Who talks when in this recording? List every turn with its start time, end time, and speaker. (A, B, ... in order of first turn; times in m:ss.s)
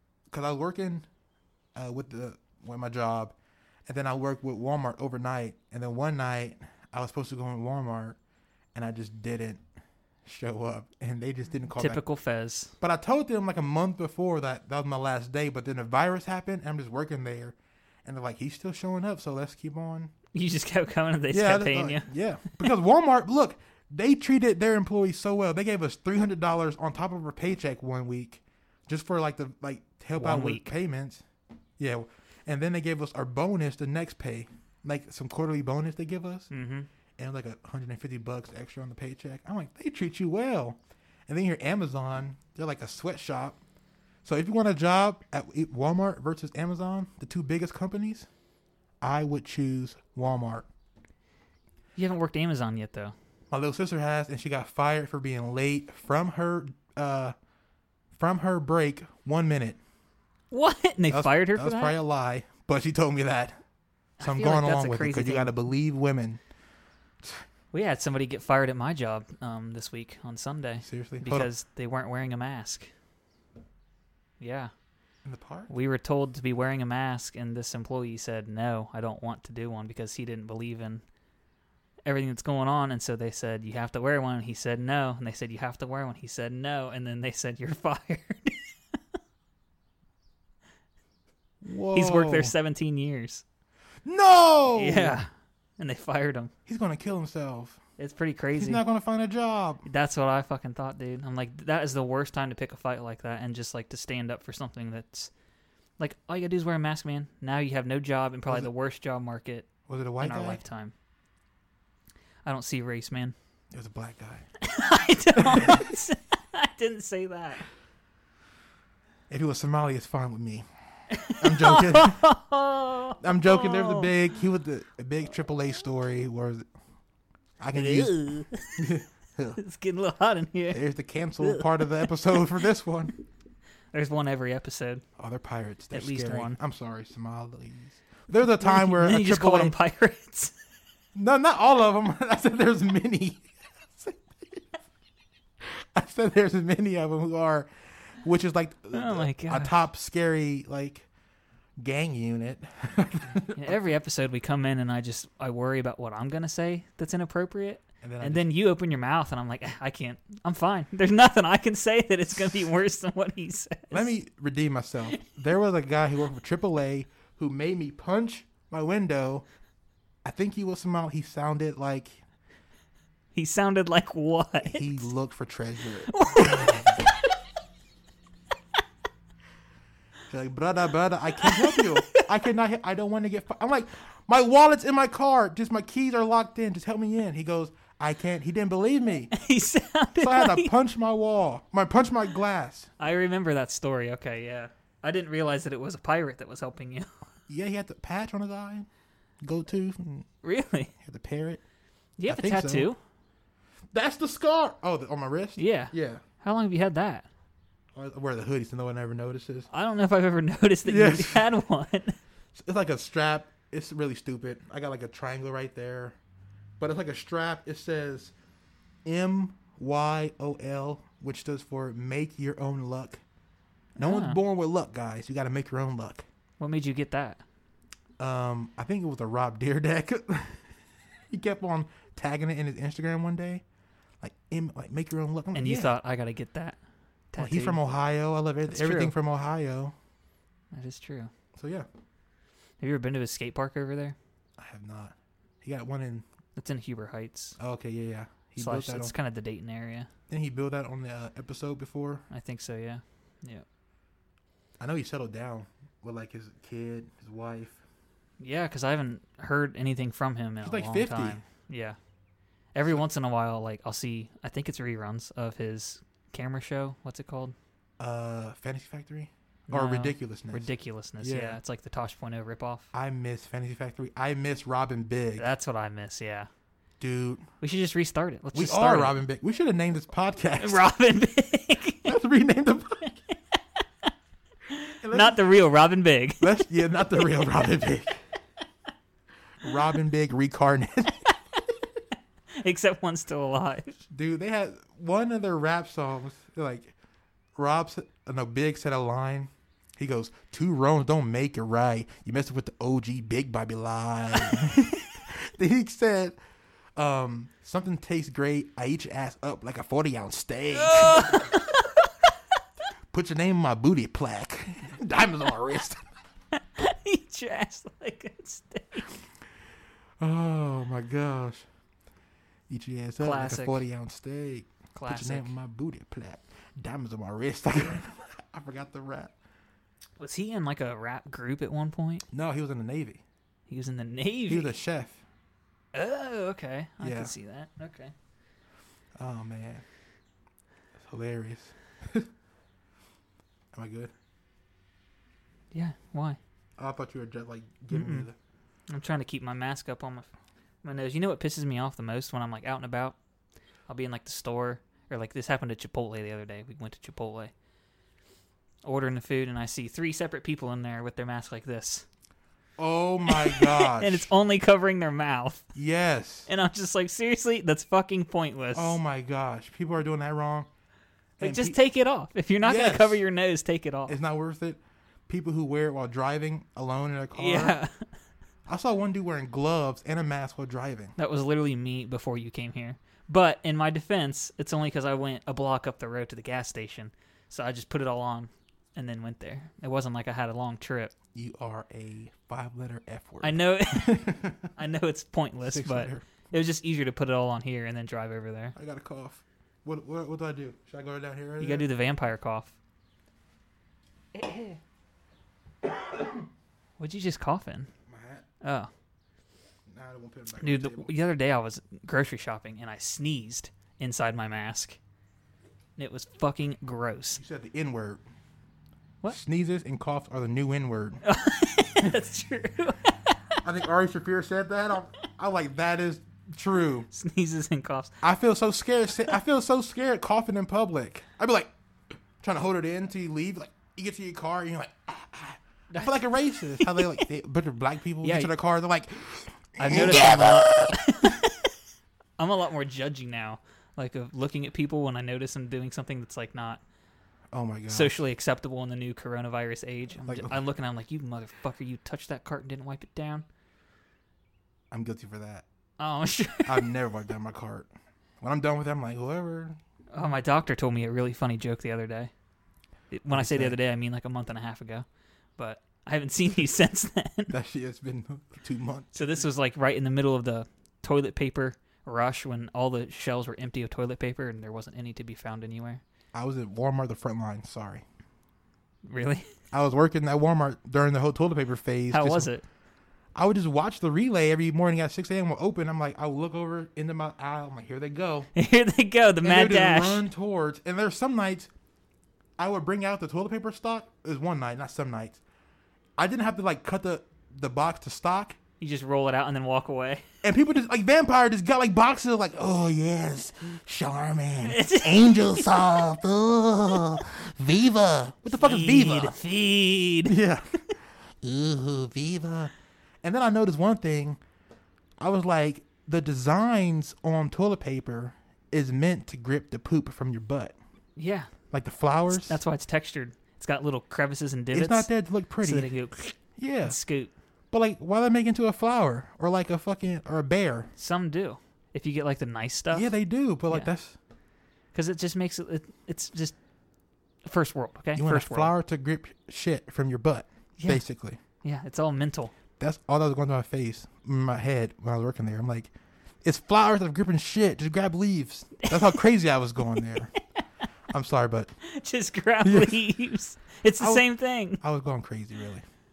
0:00.3-0:01.1 A
0:01.8-0:03.4 A
0:03.9-0:08.2 A
0:08.7-0:09.6 A
0:10.2-0:12.0 A
0:11.8-0:12.7 B
0:12.8-0:20.1 A
0:20.3-0:22.1 B
0:21.3-0:31.2 A
0:30.2-0:30.7 B
0:31.8-0:36.5 A
0:36.5-0:36.9 B
0:37.2-0:43.6 A
0:44.2-0:48.3 A
0:49.0-0:50.7 A
0:52.0-0:53.1 B
0:53.5-0:57.4 A
0:58.2-0:59.8 A
1:00.5-1:02.0 B
1:01.1-1:03.6 A
1:04.2-1:05.5 B
1:04.2-1:06.4 A
1:07.7-1:12.9 B
1:10.8-1:11.5 A
1:14.4-1:14.7 B
1:15.2-1:15.7 A
1:15.7-1:21.0 B
1:22.1-1:28.6 B
1:31.6-1:32.5 A
1:31.9-1:33.4 B
1:34.0-1:35.2 A
1:34.7-1:36.5 B
1:36.7-1:37.8 A
1:38.0-1:38.8 B
1:38.6-1:39.9 A
1:39.8-1:45.3 B
1:46.0-1:49.7 B
1:49.9-1:50.6 A
1:50.2-1:50.9 B
1:52.4-1:53.4 B
1:53.7-1:54.5 A
1:54.6-1:57.7 B
1:55.4-1:55.8 A
1:59.3-2:00.7 A
2:01.1-2:04.1 B
2:01.3-2:02.2 A
2:03.2-2:06.7 A
2:07.6-2:08.2 A
2:07.7-2:08.9 B
2:08.8-2:09.6 A
2:09.6-2:10.8 B
2:10.7-2:13.1 A
2:11.4-2:12.4 B
2:13.9-2:15.0 B
2:15.2-2:19.8 A
2:15.9-2:16.6 B
2:18.6-2:20.5 B
2:21.2-2:24.6 A
2:25.6-2:31.1 A
2:28.9-2:29.7 B
2:31.8-2:33.8 A
2:33.6-2:44.1 B
2:38.0-2:38.5 A
2:43.9-2:49.4 A
2:50.2-2:52.2 A
2:53.4-2:55.1 B
2:54.6-2:57.0 A
2:56.1-2:57.1 B
3:00.3-3:09.3 A
3:01.4-3:02.3 B
3:09.3-3:10.7 B
3:10.2-3:12.9 A
3:13.0-3:17.1 B
3:17.5-3:18.9 A
3:19.4-3:20.3 A
3:20.4-3:20.9 B
3:21.0-3:21.6 A
3:22.2-3:23.0 B
3:22.3-3:22.9 A
3:23.9-3:26.2 A
3:25.6-3:27.3 B
3:27.9-3:29.7 A
3:29.7-3:32.2 B
3:30.9-3:31.4 A
3:32.5-3:36.2 A
3:36.8-3:38.3 A
3:39.0-3:43.2 A
3:44.0-3:44.4 B
3:44.0-3:46.2 A
3:46.6-3:47.4 B
3:48.2-3:50.7 A
3:51.3-3:53.6 A
3:54.2-3:56.0 A
3:55.6-3:56.8 B
3:57.3-3:57.9 B
3:57.4-3:59.9 A
3:58.7-3:59.2 B
4:00.7-4:01.3 B
4:01.6-4:01.9 A
4:02.8-4:04.2 B
4:04.6-4:06.3 A
4:06.6-4:07.6 B
4:07.6-4:09.1 A
4:08.6-4:10.1 B
4:10.3-4:12.2 A
4:12.3-4:13.6 B
4:14.8-4:17.8 A
4:18.4-4:22.0 B
4:20.6-4:21.4 A
4:22.7-4:27.6 B
4:28.0-4:30.7 A
4:29.7-4:32.9 B
4:31.2-4:31.6 A
4:32.9-4:35.5 A
4:35.4-4:36.5 B
4:37.0-4:37.4 A
4:37.6-4:39.2 B
4:38.5-4:40.9 A
4:40.6-4:42.1 B
4:42.0-4:43.2 A
4:44.7-4:46.6 B
4:45.0-4:45.4 A
4:46.4-4:48.2 A
4:49.6-4:51.3 A
4:52.6-4:54.0 B
4:54.1-4:57.0 A
4:57.6-5:06.4 A
5:07.0-5:11.5 A
5:10.7-5:12.1 B
5:13.1-5:16.0 A
5:16.6-5:19.1 B
5:20.2-5:21.6 A
5:22.7-5:29.3 A
5:23.2-5:23.8 B
5:24.9-5:25.5 B
5:30.2-5:32.2 B
5:32.3-5:33.2 A
5:33.7-5:34.7 B
5:34.5-5:35.2 A
5:35.9-5:38.1 B
5:37.0-5:37.3 A
5:39.2-5:39.8 A
5:41.0-5:42.3 A
5:43.7-5:44.1 A
5:45.7-5:46.4 B
5:46.8-5:48.4 A
5:47.9-5:48.3 B
5:48.9-5:50.3 B
5:50.8-5:53.2 B
5:53.9-5:57.5 B
5:58.8-6:02.1 B
6:02.8-6:04.3 A
6:03.3-6:05.7 B
6:05.8-6:06.5 A
6:06.5-6:09.0 B
6:08.7-6:10.7 A
6:11.4-6:11.8 A
6:11.4-6:14.2 B
6:12.6-6:13.2 A
6:14.1-6:17.8 A
6:17.4-6:18.0 B
6:18.7-6:21.2 A
6:21.2-6:31.1 B
6:31.3-6:34.7 A
6:33.4-6:38.8 B
6:35.6-6:36.2 A
6:38.8-6:41.9 A
6:41.6-6:42.8 B
6:44.4-6:44.8 A
6:47.0-6:47.9 B
6:48.1-6:48.4 A
6:48.6-6:48.9 B
6:49.9-6:51.1 A
6:50.6-6:55.0 B
6:56.0-6:57.4 B
6:57.4-6:58.2 A
6:59.3-7:01.2 A
7:01.2-7:03.4 B
7:03.6-7:07.1 A
7:07.1-7:08.1 B
7:08.2-7:11.7 A
7:12.4-7:20.8 A
7:15.9-7:16.2 B
7:16.8-7:17.2 B
7:18.2-7:18.5 B
7:19.8-7:21.7 B
7:22.4-7:26.8 B
7:27.5-7:28.2 A
7:27.9-7:33.5 B
7:30.2-7:30.6 A
7:34.9-7:35.6 A
7:36.0-7:36.9 B
7:36.6-7:37.9 A
7:38.4-7:39.8 A
7:40.1-7:42.3 B
7:43.1-7:45.0 B
7:43.3-7:43.8 A
7:45.6-7:47.6 B
7:47.5-7:49.4 A
7:49.2-7:56.0 B
7:56.3-7:58.0 A
7:59.1-7:59.5 B
7:59.7-8:02.5 A
8:02.1-8:02.6 B
8:03.4-8:08.5 A
8:08.6-8:10.2 B
8:09.4-8:11.7 A
8:12.6-8:15.4 A
8:16.2-8:18.6 A
8:18.8-8:20.2 B
8:20.4-8:29.4 A
8:24.6-8:26.0 B
8:28.5-8:30.4 B
8:30.3-8:30.8 A
8:31.4-8:32.7 A
8:33.2-8:34.4 A
8:35.2-8:40.8 A
8:41.2-8:41.5 B
8:41.7-8:42.6 A
8:42.3-8:45.1 B
8:44.7-8:45.9 A
8:45.6-8:47.3 B
8:46.6-8:47.0 A
8:47.7-8:50.9 A
8:51.0-8:53.1 B
8:52.9-8:54.2 A
8:54.9-8:56.6 B
8:57.4-8:58.7 B
8:58.2-9:01.4 A
9:00.8-9:01.0 B
9:01.6-9:02.5 B
9:02.8-9:05.9 A
9:06.4-9:10.3 A
9:08.8-9:09.2 B
9:11.1-9:11.7 A
9:11.8-9:14.8 B
9:12.6-9:13.0 A
9:14.0-9:14.3 A
9:14.8-9:15.8 A